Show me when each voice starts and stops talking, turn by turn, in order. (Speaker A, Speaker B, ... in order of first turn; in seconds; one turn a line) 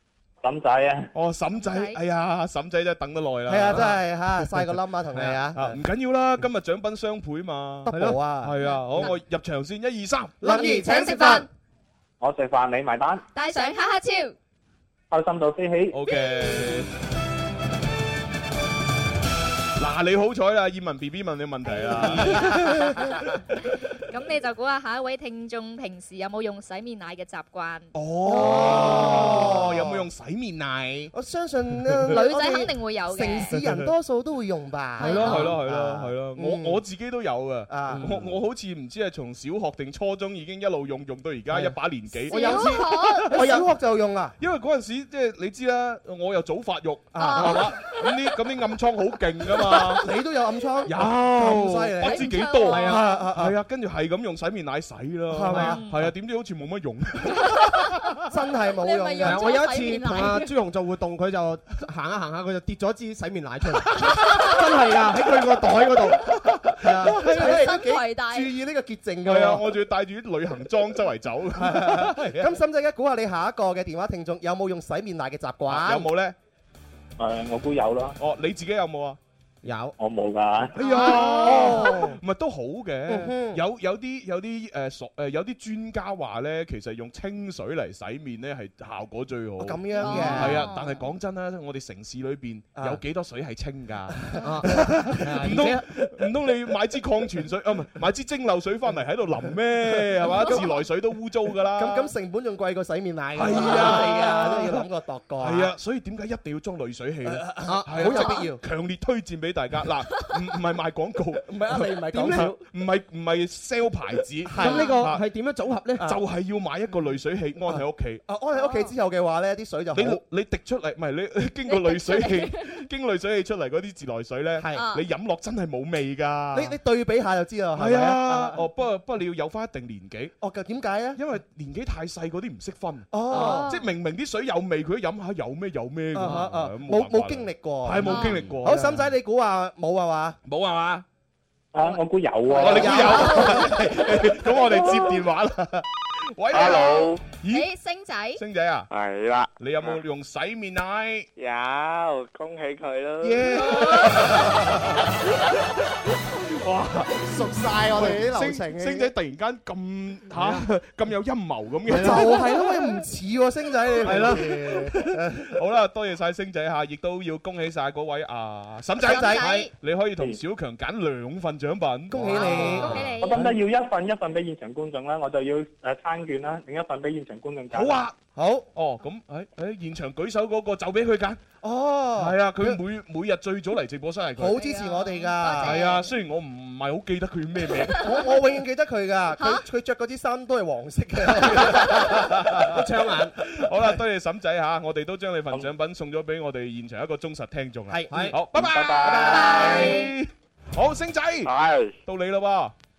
Speaker A: 0.4-1.1
Speaker B: 1.1-4.4
Speaker C: 1.6-1.9
Speaker D: 3.5-5.8
Speaker B: 5.5-10.4
Speaker D: 7.9-8.5
Speaker E: 7.9-8.2
Speaker D: 10.4-11.5
Speaker E: 10.4-11.4
Speaker C: 10.5-11.5
Speaker A: 12.2-13.3
Speaker C: 13.3-14.3
Speaker F: 13.4-13.7
Speaker A: 15.1-16.0
Speaker B: 15.9-16.9
Speaker B: 19.8-23.4
Speaker D: 22.0-22.5
Speaker F: 24.0-27.9
Speaker B: 27.9-31.1
Speaker D: 28.3-30.1
Speaker D: 31.1-36.8
Speaker F: 32.1-33.5
Speaker B: 33.5-33.9
Speaker C: 35.0-35.5
Speaker B: 35.0-43.6
Speaker D: 37.7-38.2
Speaker E: 37.9-38.3
Speaker E: 41.5-41.8
Speaker C: 42.3-43.3
Speaker D: 42.3-44.4
Speaker B: 44.4-50.1
Speaker D: 47.1-47.7
Speaker C: 47.2-47.9
Speaker D: 49.7-53.5
Speaker B: 50.9-58.3
Speaker C: 52.0-53.1
Speaker E: 52.6-53.1
Speaker D: 55.3-55.9
Speaker E: 55.5-55.8
Speaker D: 58.3-59.5
Speaker C: 58.8-60.5
Speaker E: 59.2-66.2
Speaker B: 66.5-66.8
Speaker E: 66.8-67.6
Speaker D: 66.8-69.7
Speaker C: 67.2-68.5
Speaker B: 69.2-72.5
Speaker D: 71.6-76.1
Speaker B: 75.7-76.4
Speaker A: 77.2-78.2
Speaker B: 78.2-79.2
Speaker E: 79.6-79.9
Speaker A: 80.0-80.8
Speaker D: 80.8-82.2
Speaker B: 80.8-102.1
Speaker D: 83.1-83.6
Speaker D: 89.6-90.7
Speaker C: 90.0-91.0
Speaker D: 92.8-93.0
Speaker D: 94.1-95.7
Speaker E: 94.4-95.9
Speaker D: 100.4-100.7
Speaker D: 101.7-105.8
Speaker B: 103.3-104.8
Speaker B: 105.4-115.2
Speaker D: 107.2-108.6
Speaker E: 107.6-108.1
Speaker C: 108.1-108.4
Speaker D: 111.5-112.6
Speaker E: 112.1-112.6
Speaker D: 114.5-115.0
Speaker E: 114.5-116.1
Speaker C: 114.6-114.9
Speaker B: 116.0-118.2
Speaker D: 117.7-120.2
Speaker C: 118.5-118.9
Speaker B: 119.9-126.7
Speaker C: 121.7-122.7
Speaker D: 124.6-124.8
Speaker C: 124.7-125.0
Speaker D: 126.5-128.6
Speaker B: 127.8-130.3
Speaker D: 130.4-131.2
Speaker B: 131.2-139.1
Speaker D: 133.1-133.8
Speaker C: 133.3-133.9
Speaker D: 136.1-140.4
Speaker C: 138.1-138.4
Speaker B: 140.5-141.1
Speaker A: 141.7-143.3
Speaker D: 142.5-144.0
Speaker B: 142.5-147.7
Speaker C: 142.9-143.6
Speaker G: 146.5-147.2
Speaker C: 147.5-148.4
Speaker B: 148.4-148.9
Speaker G: 148.9-150.0
Speaker B: 149.6-151.3
Speaker G: 151.4-154.4
Speaker B: 153.2-162.7
Speaker D: 157.4-159.1
Speaker E: 157.5-158.2
Speaker E: 160.3-160.7
Speaker E: 161.9-162.3
Speaker D: 161.9-165.6
Speaker E: 164.0-164.9
Speaker B: 164.0-173.1
Speaker D: 169.0-169.5
Speaker C: 169.0-169.7
Speaker D: 172.1-173.1
Speaker C: 172.3-173.2
Speaker F: 172.5-173.3
Speaker A: 173.2-178.0
Speaker B: 177.7-178.2
Speaker D: 178.3-178.7
Speaker B: 178.8-181.4
Speaker D: 181.6-182.8
Speaker B: 182.2-184.6
Speaker D: 184.4-186.0
Speaker C: 184.5-186.1
Speaker B: 185.6-188.2
Speaker D: 188.0-192.8
Speaker C: 189.4-189.6
Speaker B: 191.3-192.8
Speaker E: 192.7-193.4
Speaker B: 193.4-201.5
Speaker D: 197.9-200.0
Speaker E: 198.1-198.4
Speaker A: 198.6-199.8
Speaker C: 199.2-200.1
Speaker G: 201.4-202.0
Speaker B: 202.0-202.7